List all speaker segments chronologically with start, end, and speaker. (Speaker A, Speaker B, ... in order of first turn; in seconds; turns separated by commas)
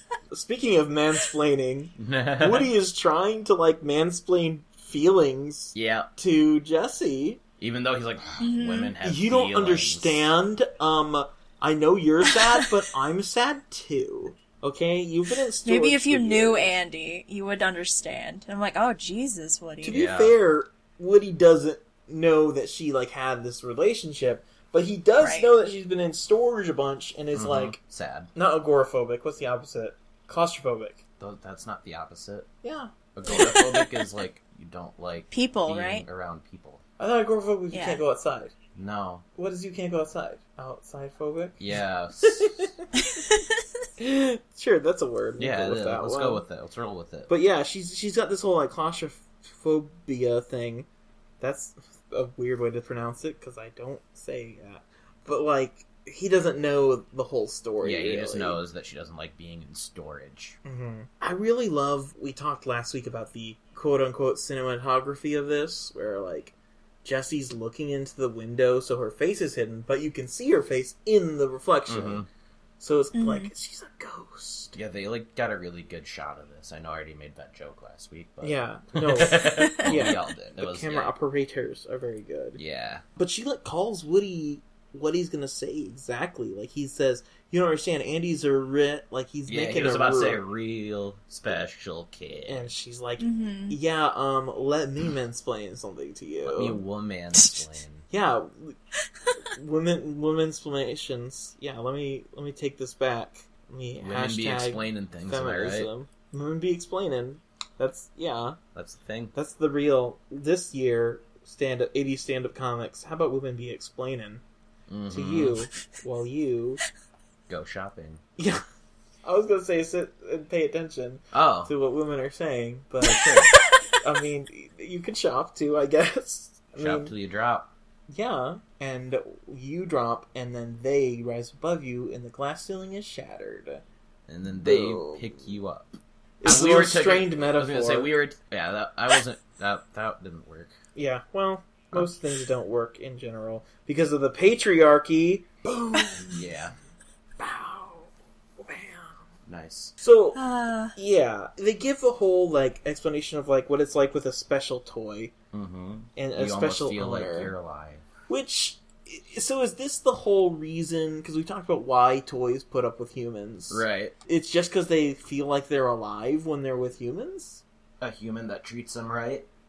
Speaker A: 0.3-7.4, Speaker B: 2.0-2.7, Speaker B: 5.7-6.1, Speaker B: 7.6-10.3, Speaker C: 8.4-8.9, Speaker A: 9.0-16.7, Speaker C: 12.2-12.7, Speaker C: 15.6-20.1, Speaker A: 19.8-27.8, Speaker B: 19.9-20.4, Speaker C: 25.2-25.5, Speaker B: 27.3-28.3, Speaker A: 28.3-31.0, Speaker B: 31.2-32.5, Speaker A: 32.6-33.5, Speaker B: 33.1-36.8, Speaker C: 33.3-34.1, Speaker C: 35.3-36.0, Speaker A: 37.0-38.5, Speaker C: 37.7-38.0, Speaker B: 38.8-39.2, Speaker A: 39.4-41.6, Speaker B: 41.6-42.7, Speaker A: 42.2-42.8, Speaker C: 43.0-43.6, Speaker A: 44.0-46.5, Speaker B: 45.4-47.3, Speaker A: 47.3-50.9, Speaker A: 51.4-58.6, Speaker B: 57.8-60.6, Speaker A: 60.6-72.2, Speaker B: 71.9-72.3, Speaker A: 72.8-74.7, Speaker C: 73.1-73.5, Speaker B: 74.7-81.2, Speaker A: 78.4-82.6, Speaker C: 79.4-80.1, Speaker B: 82.6-83.0, Speaker A: 83.2-90.5, Speaker B: 89.5-92.7, Speaker A: 92.5-96.8, Speaker C: 93.2-93.8, Speaker B: 96.5-98.1, Speaker A: 98.1-98.8, Speaker A: 99.5-108.6, Speaker B: 104.0-105.9, Speaker B: 108.8-109.3, Speaker A: 109.3-114.4, Speaker B: 114.9-115.6, Speaker A: 115.1-116.8, Speaker B: 117.5-118.2, Speaker A: 119.2-123.5, Speaker B: 121.3-121.7, Speaker C: 123.0-124.0, Speaker B: 123.1-123.5, Speaker A: 124.0-127.1, Speaker B: 126.8-127.7, Speaker A: 128.1-133.8, Speaker B: 134.3-140.7, Speaker A: 134.5-135.3, Speaker A: 136.4-138.1, Speaker A: 140.9-146.4, Speaker B: 146.3-146.8, Speaker A: 147.4-149.2, Speaker B: 149.5-149.9, Speaker A: 150.0-150.4, Speaker C: 150.3-150.9, Speaker A: 150.9-155.3, Speaker B: 155.5-158.1, Speaker A: 156.2-157.5, Speaker A: 158.3-167.6, Speaker B: 163.7-164.2, Speaker B: 168.0-169.5